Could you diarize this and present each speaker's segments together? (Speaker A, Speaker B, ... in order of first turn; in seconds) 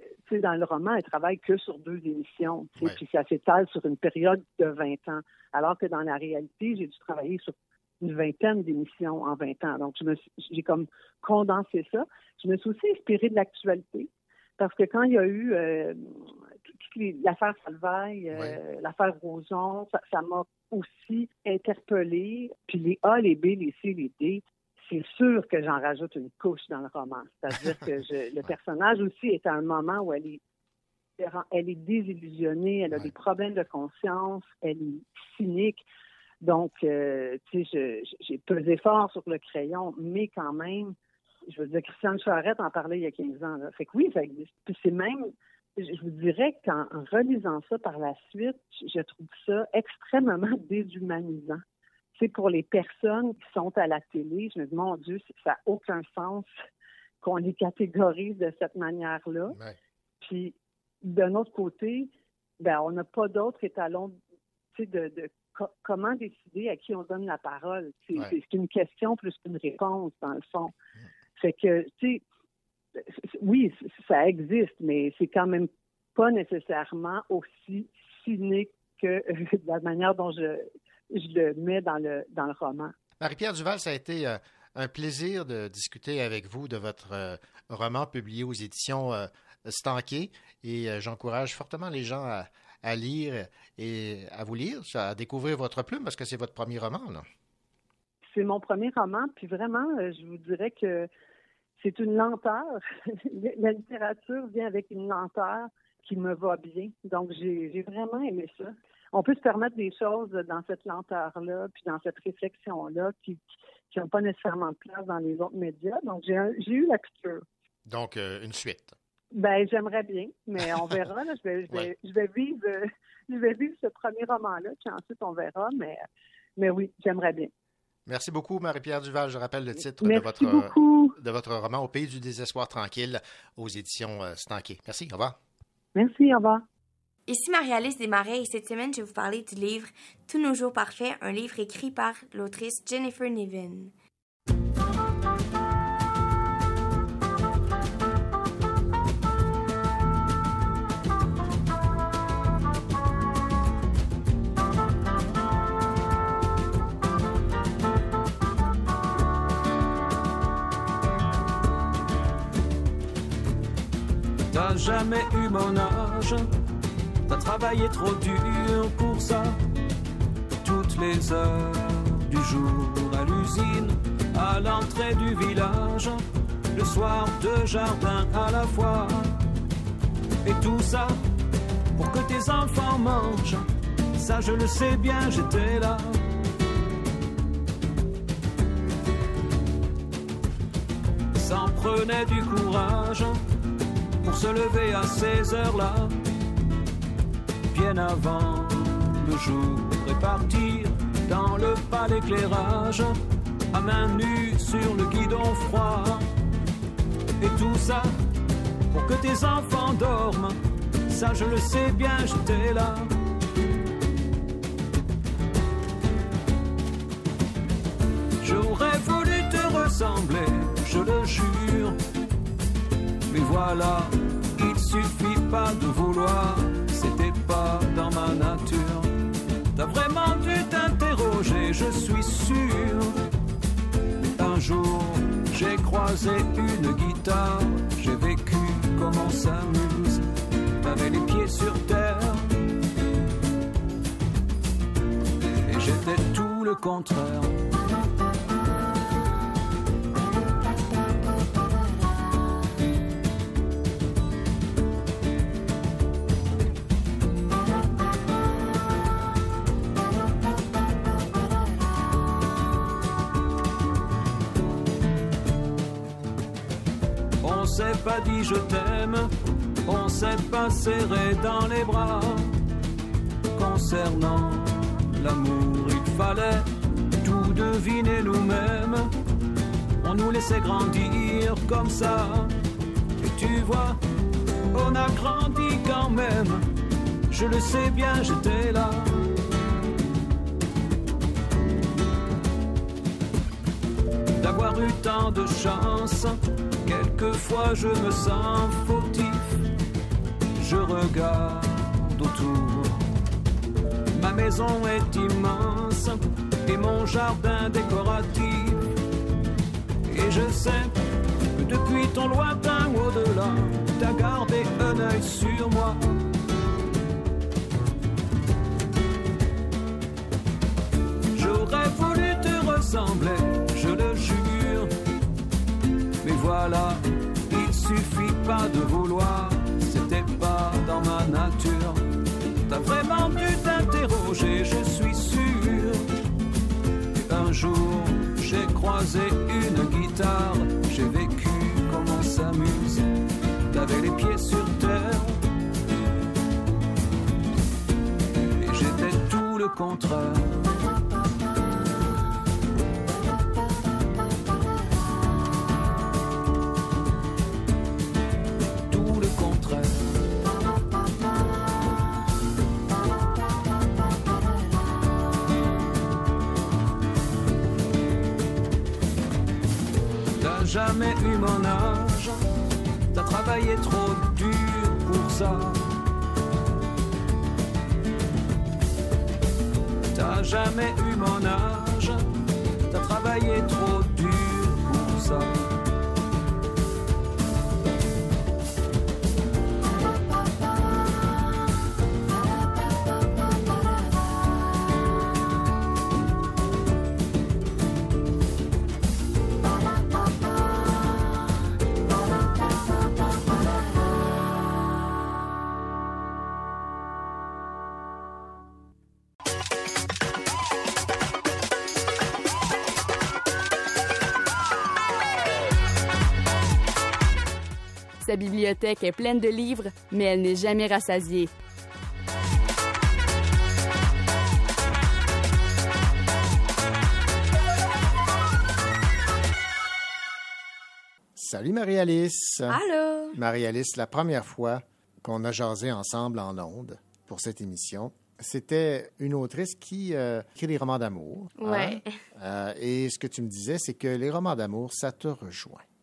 Speaker A: 0.3-30.4, 31.2-35.8, 36.4-41.0, 41.5-51.6, 52.2-56.5, 57.2-59.6, 60.2-64.2, 64.7-70.7, 71.4-72.2, 73.0-82.9, 98.3-101.1, 101.8-117.5, 119.3-126.0, 126.6-127.5, 130.0-131.2, 135.9-136.7
Speaker B: 59.5-59.8, 83.2-97.3, 117.9-118.9, 128.1-135.4, 431.4-432.8, 433.3-445.9
Speaker C: 137.3-143.9, 432.7-433.4, 441.6-442.2
Speaker D: 164.5-166.5, 167.3-169.6, 170.6-179.4, 180.4-181.2, 181.9-186.2, 191.3-193.4, 194.2-196.2, 197.7-203.2, 203.7-206.3, 207.4-208.1, 208.9-213.1, 218.4-222.0, 223.3-229.1, 229.8-233.2, 234.4-240.3, 240.8-242.6, 245.7-247.7, 267.4-269.3, 269.9-272.6, 273.5-276.7, 277.2-279.1, 280.0-282.6, 283.2-284.0, 284.7-286.7, 287.3-289.3, 294.4-299.5, 300.6-303.1, 304.1-308.9, 310.1-310.9, 311.5-316.0, 321.4-324.9, 326.2-332.1, 332.7-336.2, 337.2-343.1, 343.7-345.5, 348.6-350.6, 358.9-360.1, 370.4-372.5, 373.1-375.9, 380.1-385.7
Speaker E: 418.2-421.5